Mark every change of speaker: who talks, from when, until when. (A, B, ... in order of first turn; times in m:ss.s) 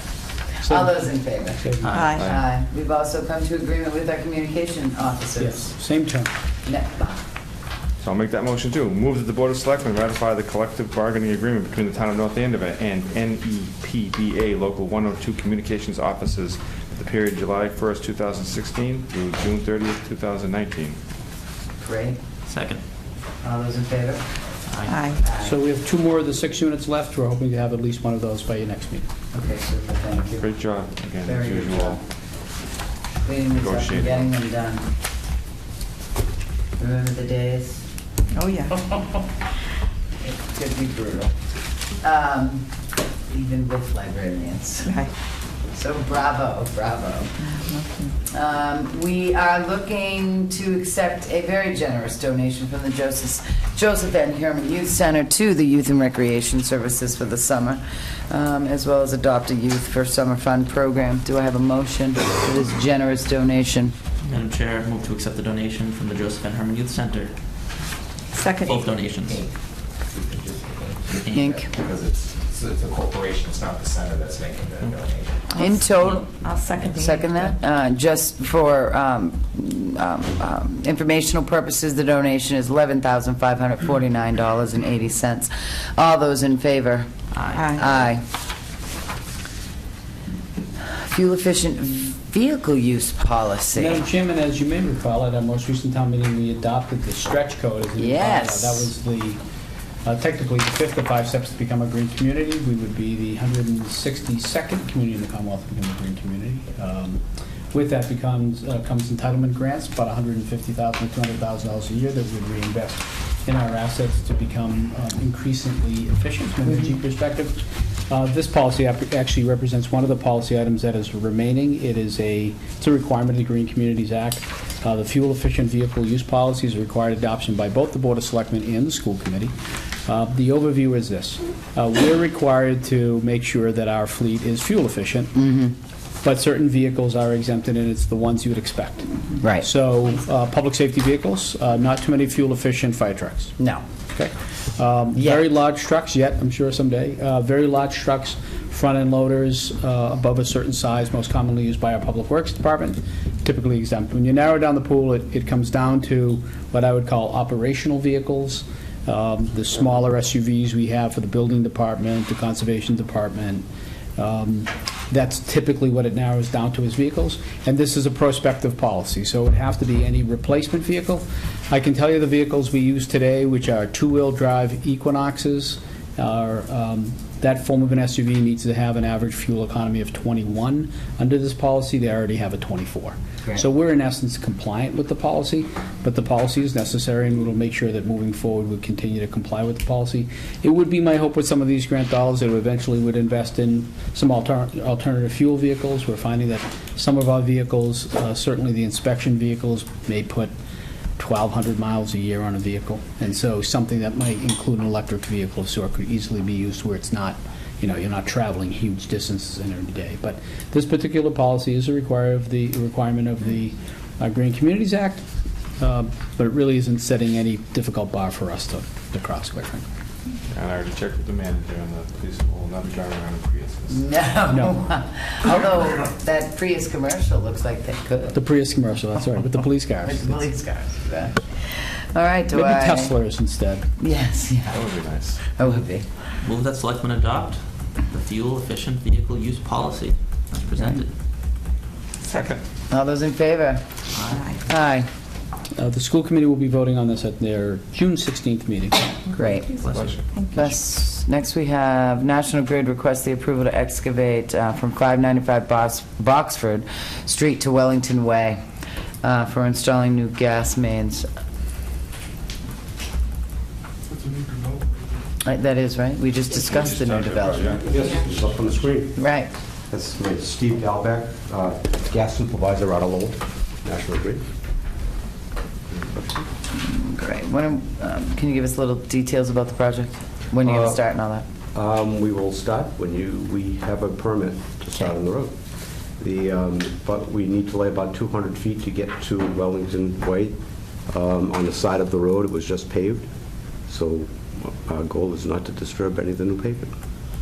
0:00.6-0:05.7 A
0:00.6-0:00.9 B
0:01.6-0:02.0 B
0:01.8-0:02.2 C
0:01.9-0:02.3 D
0:02.1-0:02.5 E
0:05.4-0:06.3 B
0:06.6-0:07.2 A
0:08.0-0:21.0 E
0:21.8-0:22.2 A
0:22.5-0:22.8 C
0:23.4-0:24.3 A
0:24.7-0:25.1 C
0:24.9-0:25.2 D
0:25.1-0:25.6 A
0:25.4-0:29.1 B
0:29.3-0:30.5 A
0:30.4-0:32.0 E
0:31.2-0:32.0 A
0:33.2-0:34.9 A
0:33.5-0:34.3 E
0:36.8-0:37.8 A
0:38.3-0:38.8 D
0:38.9-0:39.2 A
0:40.2-0:41.3 A
0:42.0-0:42.7 A
0:43.3-0:45.1 A
0:45.7-0:47.4 A
0:47.5-0:48.1 D
0:48.3-1:03.9 A
1:04.3-1:07.3 C
1:08.3-1:08.8 D
1:08.5-1:09.5 C
1:08.9-1:15.5 F
1:11.1-1:11.6 C
1:11.3-1:11.7 A
1:15.5-1:17.5 D
1:15.6-1:27.1 A
1:15.8-1:16.2 C
1:27.3-1:27.8 C
1:27.6-1:27.8 D
1:27.7-1:28.2 A
1:30.8-1:34.0 A
1:33.7-1:39.4 B
1:38.0-1:38.9 A
1:40.0-1:47.2 B
1:47.7-2:09.5 B
2:10.1-2:15.3 B
2:15.4-2:15.8 A
2:16.2-2:23.6 B
2:19.4-2:19.7 A
2:23.6-2:23.8 A
2:24.1-2:43.6 B
2:25.2-2:25.4 A
2:44.2-3:20.5 B
3:21.2-3:35.2 B
3:35.8-3:39.9 B
3:40.5-3:44.0 E
3:43.9-3:48.4 A
3:44.5-3:44.8 B
3:48.3-3:50.4 B
3:50.0-3:53.2 A
3:52.5-3:53.8 B
3:54.0-3:54.8 A
3:54.7-3:55.4 E
3:55.5-3:56.1 A
3:56.4-4:01.1 C
4:02.3-4:02.6 E
4:02.9-4:03.8 A
4:04.6-4:05.1 A
4:05.8-4:09.2 B
4:09.3-4:09.7 A
4:09.8-4:10.2 C
4:09.9-4:10.3 E
4:10.3-4:10.7 D
4:10.5-4:18.6 A
4:19.2-4:21.3 A
4:25.4-4:27.9 A
4:26.5-4:28.4 E
4:27.9-4:29.2 G
4:29.2-4:29.5 A
4:29.9-4:34.4 G
4:36.1-4:36.4 G
4:36.7-4:41.4 A
4:40.6-4:41.0 G
4:41.7-4:45.5 G
4:46.2-4:50.6 G
4:51.1-4:53.3 G
4:53.9-4:56.9 G